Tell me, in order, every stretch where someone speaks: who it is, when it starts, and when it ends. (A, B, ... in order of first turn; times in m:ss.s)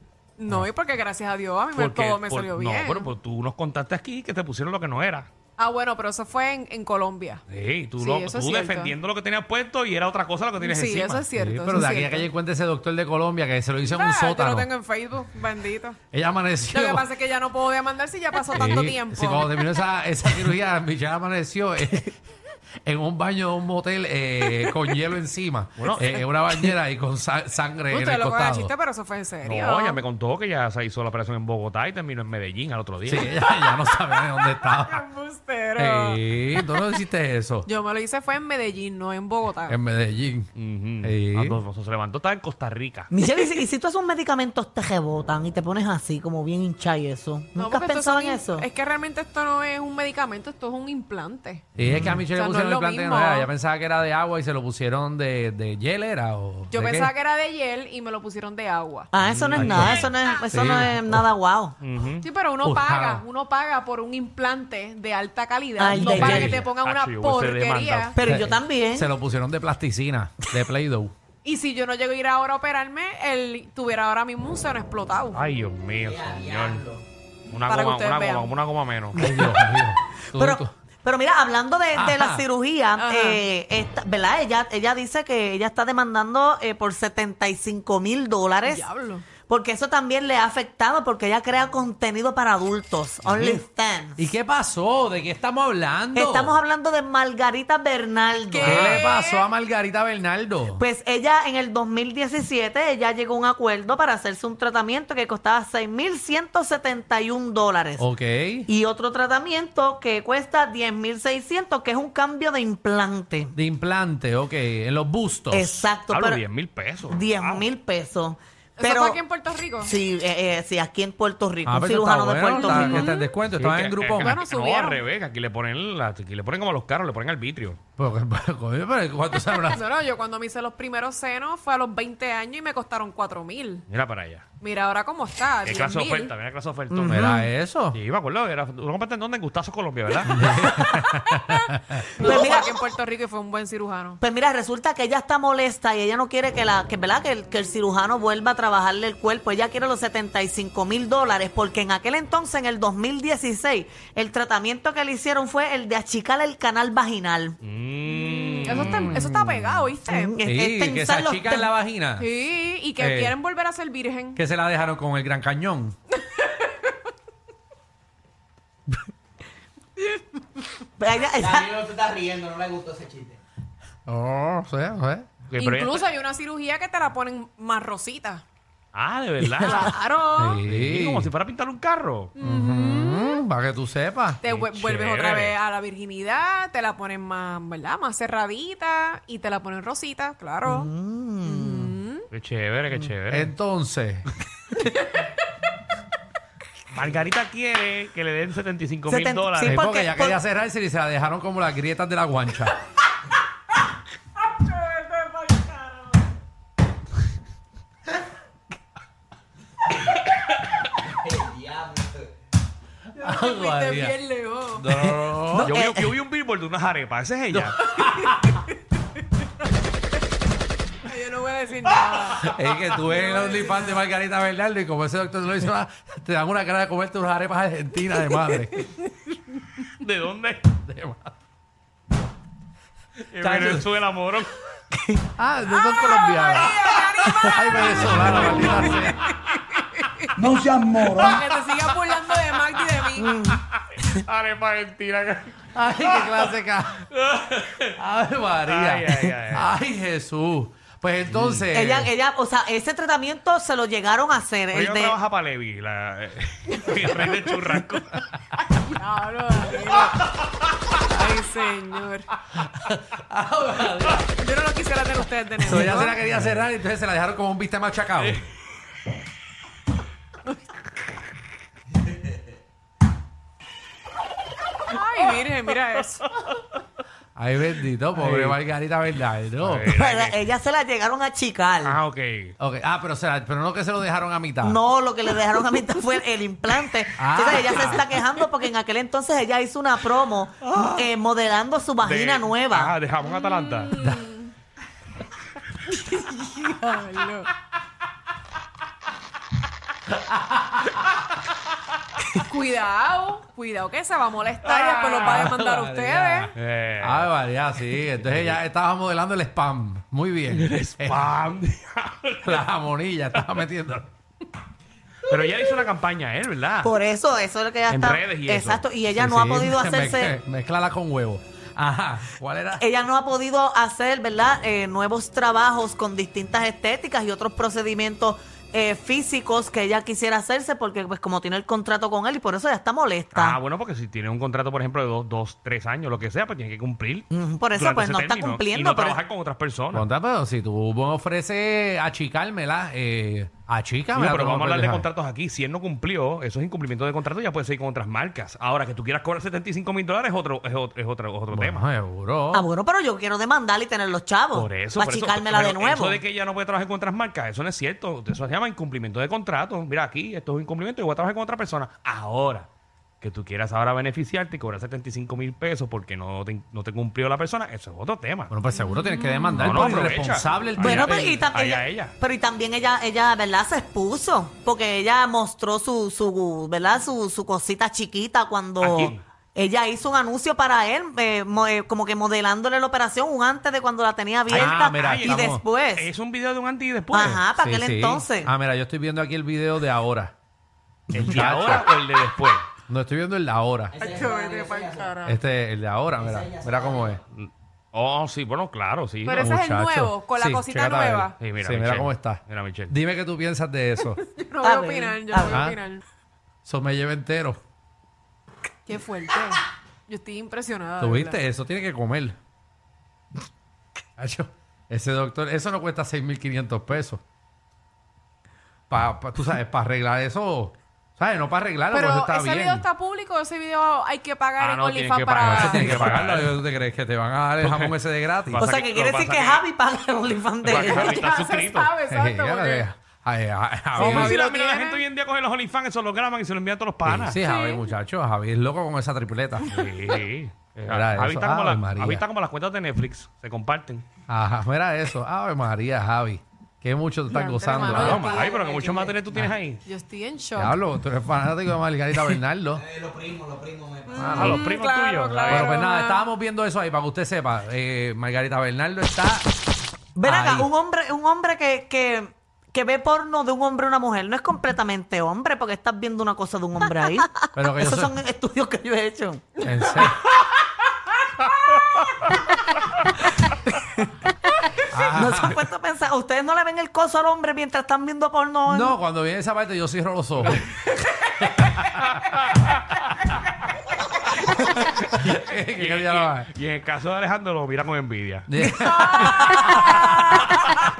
0:00.4-0:03.1 A
0:01.8-0:05.3 B
0:05.6-0:07.4 A
0:07.5-0:11.2 B
0:08.0-0:08.9 A
0:10.6-0:12.3 A
0:11.3-0:14.7 C
0:13.8-0:16.0 A
0:16.1-0:17.1 C
0:16.7-0:19.7 A
0:18.5-0:22.1 C
0:22.8-0:28.7 C
0:25.8-0:26.2 B
0:27.9-0:30.0 A
0:29.4-0:33.3 B
0:33.0-0:35.1 C
0:33.5-0:36.8 A
0:35.8-0:37.7 C
0:37.6-0:39.8 A
0:39.7-0:40.5 C
0:40.6-0:43.1 B
0:41.0-0:41.6 C
0:43.1-0:48.6 D
0:47.6-0:51.6 A
0:51.8-0:57.1 C
0:51.8-0:52.1 B
0:52.3-0:53.5 A
0:56.7-0:59.1 A
0:59.1-1:01.8 D
0:59.2-1:00.1 B
0:59.5-1:01.3 C
1:01.8-1:02.2 B
1:02.2-1:08.2 A
1:02.6-1:03.2 C
1:05.8-1:06.6 D
1:05.9-1:06.6 C
1:06.3-1:08.1 B
1:08.1-1:09.1 D
1:08.2-1:11.1 C
1:11.4-1:15.4 A
1:15.3-1:16.9 B
1:16.0-1:17.0 E
1:17.5-1:19.2 B
1:17.6-1:18.5 A
1:19.1-1:20.7 C
1:19.3-1:19.6 D
1:20.3-1:28.8 D
1:21.9-1:22.4 C
1:23.0-1:23.4 A
1:28.6-1:29.2 A
1:29.5-1:34.3 D
1:33.3-1:33.6 C
1:34.2-1:36.6 C
1:36.1-1:39.0 D
1:38.5-1:39.5 A
1:38.6-1:40.8 C
1:40.8-1:48.0 D
1:48.0-1:48.7 C
1:48.7-1:53.5 D
1:53.5-1:55.8 C
1:55.5-1:56.4 D
1:56.1-1:57.7 B
1:57.1-1:59.2 D
1:58.8-1:59.9 A
1:59.8-2:03.1 D
2:01.6-2:04.4 C
2:02.6-2:03.3 A
2:03.6-2:07.8 B
2:04.2-2:05.0 A
2:08.0-2:09.8 C
2:09.5-2:13.8 A
2:13.9-2:14.4 B
2:14.6-2:16.3 A
2:15.6-2:17.2 B
2:16.9-2:17.5 D
2:17.0-2:18.0 C
2:17.9-2:20.7 B
2:20.2-2:22.1 C
2:20.5-2:24.2 A
2:22.2-2:22.8 D
2:24.2-2:37.6 D
2:37.6-2:39.2 B
2:38.1-2:40.3 A
2:38.8-2:39.9 C
2:40.0-2:41.7 D
2:40.4-2:42.3 C
2:42.2-2:44.4 A
2:43.0-2:43.4 C
2:44.3-2:45.9 C
2:46.2-2:46.9 A
2:50.0-2:50.4 A
2:51.0-2:51.9 D
2:51.6-2:53.4 E
2:54.0-2:55.3 C
2:55.5-2:56.0 B
2:55.6-2:58.4 A
2:58.9-2:59.9 B
2:59.4-2:59.9 D
2:59.6-3:00.6 A
3:00.3-3:01.3 C
3:00.6-3:02.3 B
3:02.4-3:03.4 A
3:02.4-3:04.4 C
3:04.4-3:10.9 A
3:04.4-3:05.6 B
3:10.6-3:12.0 D
3:11.4-3:12.2 A
3:12.3-3:13.5 B
3:13.3-3:14.3 C
3:14.8-3:15.3 A
3:16.9-3:19.8 B
3:19.1-3:20.4 D
3:19.6-3:22.8 C
3:24.4-3:26.2 A
3:31.4-3:32.0 E
3:33.2-3:35.0 A
3:33.2-3:34.2 C
3:34.7-3:35.8 C
3:35.5-3:36.1 D
3:35.6-3:37.8 B
3:37.5-3:38.6 C
3:41.0-3:44.0 A
3:42.3-3:48.9 C
3:49.9-3:50.6 B
3:50.8-3:51.3 C
3:53.3-3:54.5 B
3:53.4-3:53.8 C
3:55.4-3:59.3 C
3:55.7-4:00.3 A
4:00.4-4:01.4 E
4:01.0-4:03.3 A
4:03.2-4:03.6 D
4:03.5-4:06.5 B
4:05.7-4:12.1 C
4:08.7-4:09.7 B
4:11.3-4:11.7 B
4:11.7-4:15.2 D
4:14.7-4:18.3 B
4:18.8-4:20.2 A
4:20.9-4:22.3 A
4:22.6-4:24.3 C
4:24.4-4:26.2 A
4:25.6-4:28.4 C
4:34.9-4:36.2 A
4:37.4-4:39.9 C
4:38.1-4:38.6 B
4:39.6-4:40.4 B
4:39.9-4:42.0 D
4:41.8-4:42.5 B
4:42.6-4:44.8 C
4:44.6-4:53.0 D
4:47.2-4:48.2 C
4:50.6-4:51.1 B
4:52.0-4:53.9 B
4:53.3-4:54.5 A
4:54.0-4:54.3 C
4:55.8-4:57.5 A
5:00.2-5:00.8 C
5:02.3-5:06.5 A
5:04.6-5:11.3 C
5:06.5-5:07.3 B
5:07.9-5:08.6 B
5:10.5-5:12.6 B
5:12.4-5:14.1 C
5:13.3-5:13.6 B
5:15.3-5:16.9 B
5:16.8-5:20.4 D
5:17.9-5:18.8 B
5:19.1-5:22.8 C
5:22.8-5:33.6 D
5:33.3-5:40.1 B
5:37.3-5:39.2 D
5:39.9-5:45.1 C
5:44.1-5:51.8 B
5:51.5-5:52.7 C
5:52.5-5:56.2 D
5:54.5-6:02.7 B
6:03.2-6:08.5 B
6:08.5-6:11.4 C
6:08.8-6:09.8 A
6:09.5-6:12.1 B
6:10.8-6:26.1 D
6:18.8-6:19.2 B
6:24.5-6:25.6 C
6:24.5-6:27.4 B
6:27.1-6:28.5 D
6:27.6-6:30.3 C
6:31.1-6:32.6 B
6:31.1-6:31.9 C
6:32.9-6:34.0 C
6:34.0-6:35.4 A
6:34.3-6:34.8 E
6:35.2-6:37.2 C
6:36.4-6:36.8 E
6:37.3-6:39.5 B
6:39.2-6:41.4 A
6:39.3-6:44.2 C
6:41.4-6:42.9 B
6:44.1-6:46.0 A
6:44.6-6:45.6 D
6:45.5-6:45.8 C
6:46.6-6:47.6 C
6:48.8-6:51.4 A
6:51.0-6:52.3 C
6:54.2-6:57.2 C
6:58.9-7:02.8 C
7:01.9-7:06.2 A
7:04.6-7:06.6 B
7:05.4-7:08.6 C
7:07.6-7:09.6 B
7:08.6-7:11.3 D
7:10.6-7:11.9 B
7:10.7-7:12.9 A
7:12.1-7:14.4 C
7:13.9-7:15.0 A
7:13.9-7:17.4 B
7:17.0-7:19.8 C
7:17.3-7:17.9 A
7:19.6-7:24.0 B
7:20.9-7:22.2 C
7:24.3-7:28.4 C
7:27.3-7:28.5 A
7:27.8-7:29.8 B
7:28.3-7:29.0 E
7:29.8-7:30.8 A
7:30.6-7:32.8 C
7:32.9-7:34.1 E
7:34.1-7:34.6 C
7:34.1-7:36.2 A
7:34.3-7:35.7 B
7:35.5-7:39.5 C
7:40.2-7:49.7 D
7:40.2-7:40.7 C
7:47.5-7:48.1 C
7:49.6-7:50.3 C
7:54.8-7:58.9 D
7:54.8-7:55.6 C
7:58.7-8:00.7 C
8:01.4-8:02.0 C
8:02.1-8:02.8 B
8:04.5-8:06.5 C
8:05.8-8:08.6 B
8:08.5-8:10.4 C
8:08.8-8:09.9 A